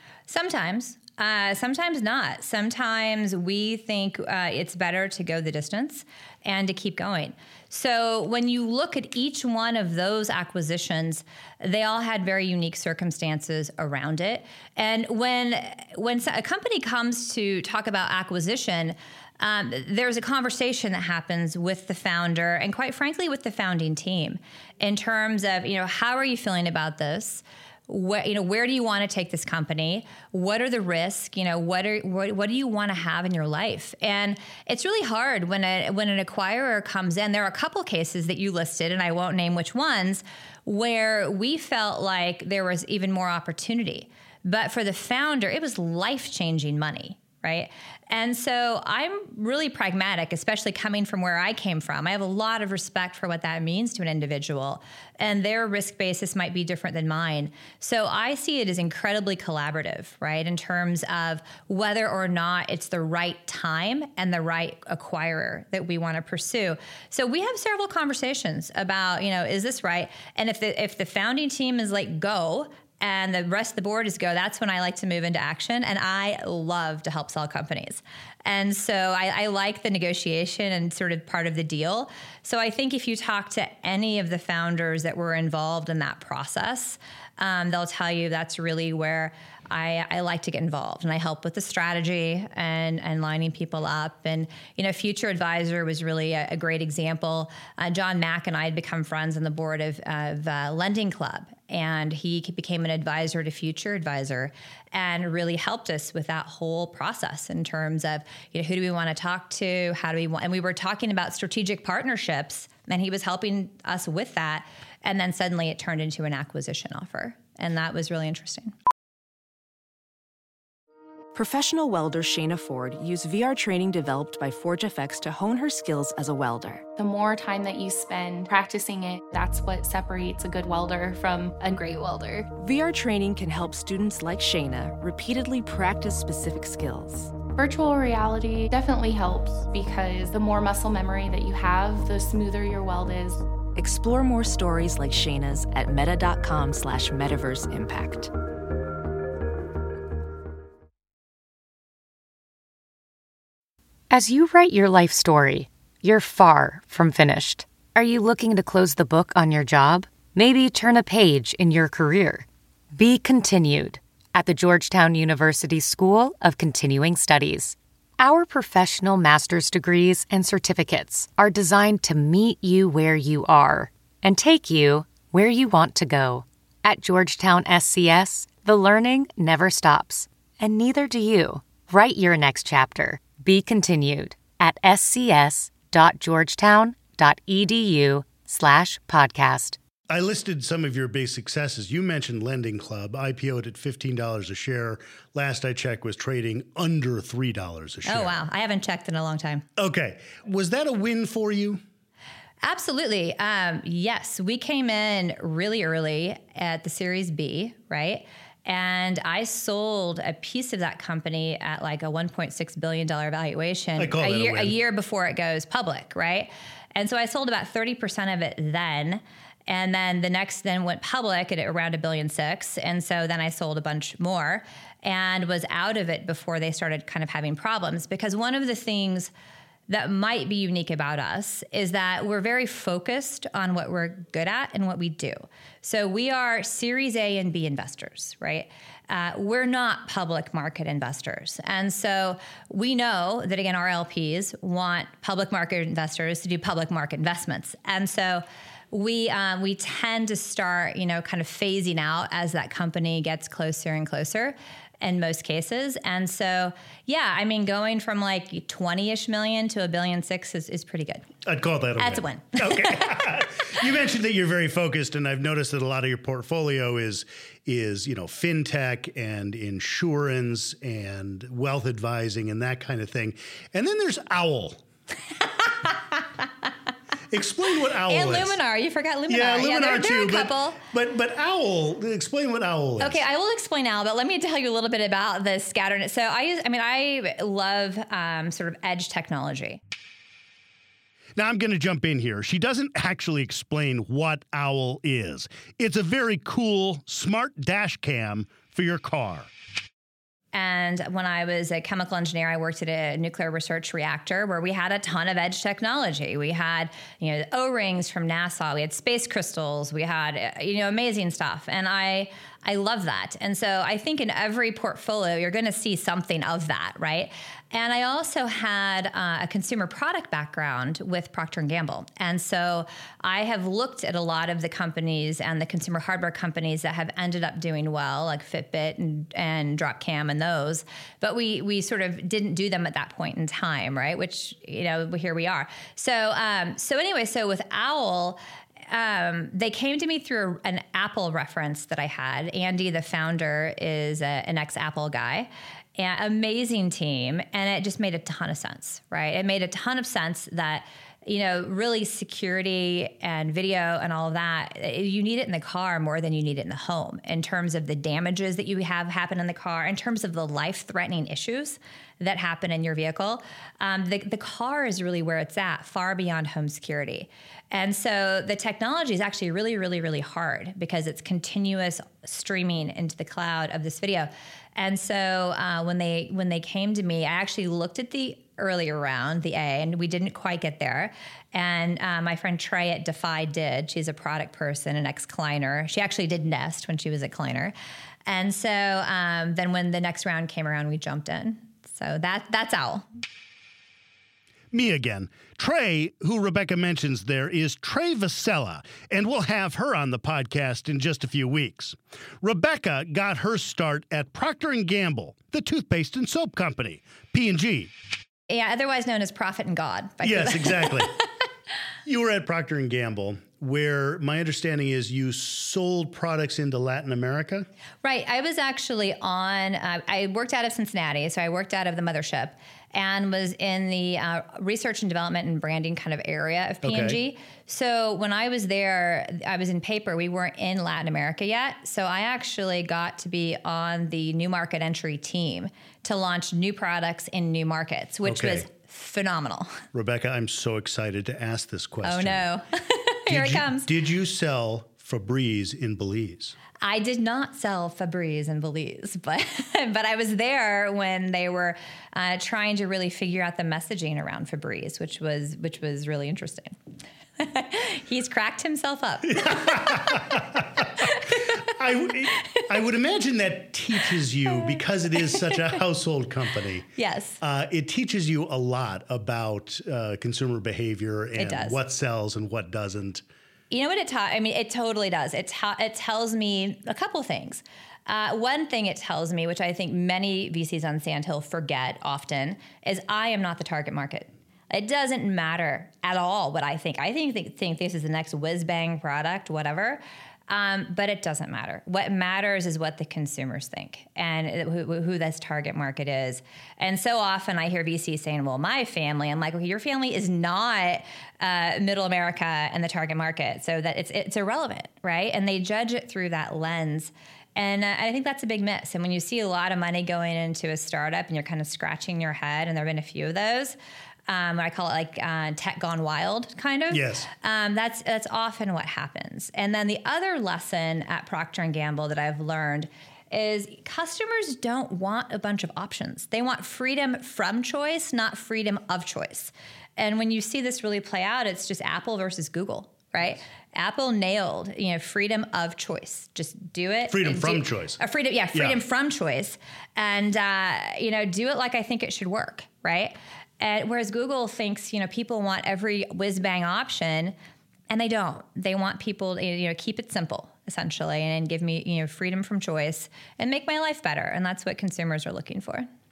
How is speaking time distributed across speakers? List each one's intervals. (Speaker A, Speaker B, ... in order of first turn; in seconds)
Speaker A: 0.3-118.7, 198.1-199.7, 202.6-229.3, 229.9-261.3, 262.0-263.3, 275.6-276.2, 278.1-280.8, 283.0-289.8, 300.5-387.7, 388.3-393.1, 408.5-411.2, 418.0-439.8, 442.0-443.9, 446.8-456.8, 457.4-460.4, 461.0-461.4, 465.3-465.7, 467.0-467.4, 471.4-471.8, 473.7-513.8, 514.3-547.4, 547.9-555.9
Speaker B: 121.3-126.9, 132.6-137.3, 143.8-148.3
Speaker C: 127.0-132.5, 137.5-143.4
Speaker D: 154.1-189.8
Speaker E: 190.1-198.4, 199.8-201.8, 214.0-214.8, 261.4-274.8, 277.3-278.6, 279.3-283.2, 291.4-299.5, 394.7-407.9, 410.2-411.2, 412.1-417.7, 426.8-427.2, 438.2-438.7, 439.9-442.5, 443.3-446.6, 459.3-466.9, 467.4-473.2, 516.9-517.3, 537.1-538.0, 538.5-538.8